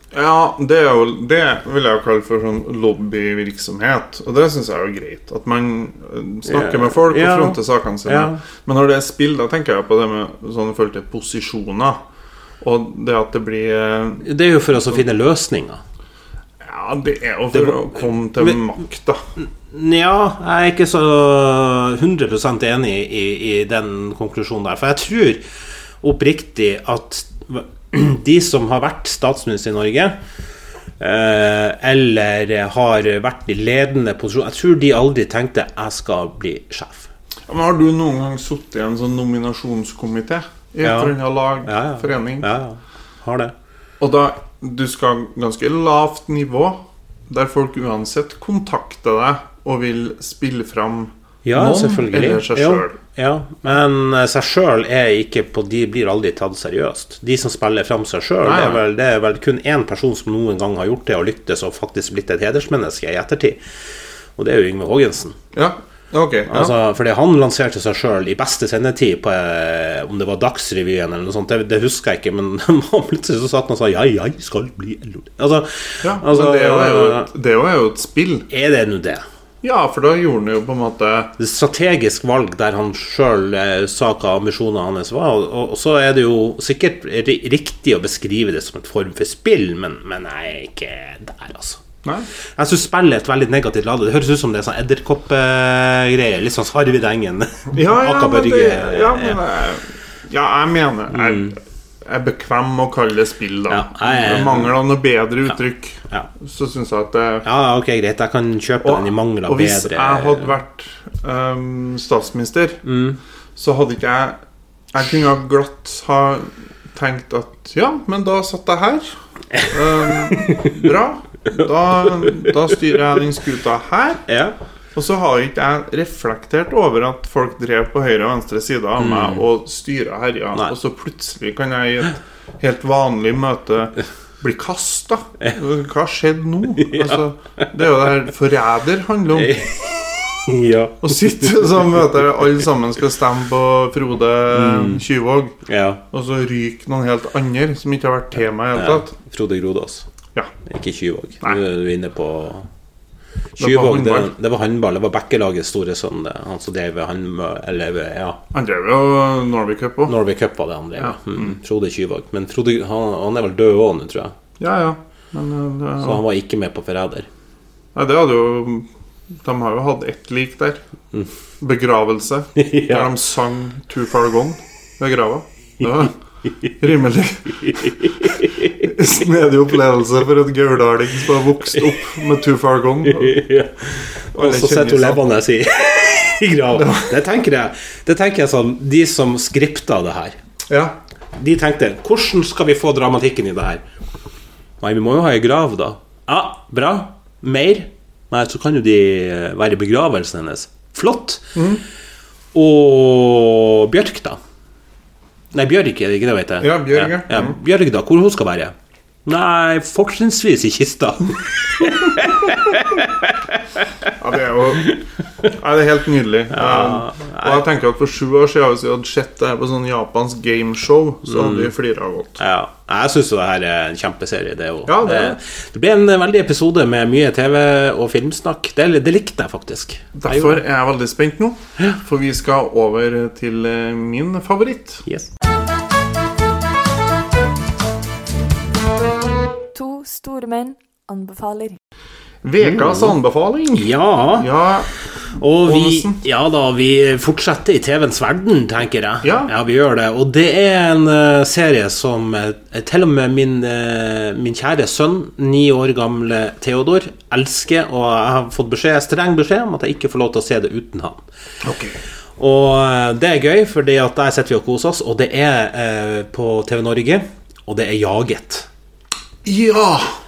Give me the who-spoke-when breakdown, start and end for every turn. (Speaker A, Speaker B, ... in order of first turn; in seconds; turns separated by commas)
Speaker A: 0.1-12.0, Speaker B: 6.5-8.4, Speaker A: 12.6-14.2, Speaker B: 14.2-15.8, Speaker A: 16.6-19.2, Speaker B: 19.7-25.4, Speaker B: 26.0-30.2, Speaker B: 31.0-37.1, Speaker A: 37.5-42.5, Speaker B: 40.8-43.5, Speaker A: 44.0-53.0, Speaker B: 51.5-63.6, Speaker A: 58.4-58.8, Speaker B: 64.4-65.4, Speaker A: 65.5-66.8, Speaker B: 66.5-77.3, Speaker A: 76.0-78.5, Speaker B: 78.5-79.2, Speaker A: 79.6-81.3, Speaker B: 81.4-91.8, Speaker B: 92.6-99.4, Speaker A: 97.7-107.5, Speaker B: 101.1-101.5, Speaker B: 103.7-104.8, Speaker B: 107.4-110.5, Speaker A: 108.8-112.8, Speaker B: 112.8-113.2, Speaker A: 113.6-114.4, Speaker A: 114.9-119.1, Speaker B: 119.6-120.8, Speaker A: 119.7-124.2, Speaker B: 124.3-124.6, Speaker A: 125.0-139.6, Speaker B: 129.0-129.4, Speaker B: 136.8-137.7, Speaker B: 139.4-141.7, Speaker A: 141.0-145.6, Speaker B: 144.5-145.0, Speaker B: 145.7-146.0, Speaker A: 146.1-149.1, Speaker B: 148.8-150.1, Speaker B: 150.7-152.7, Speaker B: 153.6-158.4, Speaker A: 153.6-154.3, Speaker A: 158.5-160.2, Speaker B: 160.1-164.3, Speaker A: 161.0-161.5, Speaker A: 164.6-166.2, Speaker B: 166.0-167.3, Speaker A: 167.9-168.9, Speaker A: 169.4-170.8, Speaker A: 171.6-176.1, Speaker B: 172.6-173.1, Speaker A: 176.8-183.4, Speaker B: 177.6-178.8, Speaker B: 183.1-190.4, Speaker A: 184.3-185.2, Speaker A: 186.7-187.1, Speaker A: 190.7-191.0, Speaker B: 191.4-193.8, Speaker B: 194.8-201.6, Speaker A: 201.6-201.8, Speaker B: 202.5-204.4, Speaker B: 205.5-208.7, Speaker A: 206.6-207.6, Speaker B: 209.3-213.6, Speaker A: 214.2-222.4, Speaker B: 216.5-217.7, Speaker B: 221.3-221.7, Speaker B: 222.4-230.6, Speaker A: 224.9-225.4, Speaker A: 230.2-235.0, Speaker B: 235.1-235.3, Speaker C: 239.7-241.8, Speaker A: 242.4-244.9, Speaker B: 242.6-243.2, Speaker B: 243.7-244.5, Speaker B: 245.3-261.2, Speaker A: 245.6-246.2, Speaker A: 249.2-249.5, Speaker A: 261.6-262.0, Speaker B: 262.4-268.7, Speaker A: 269.4-270.2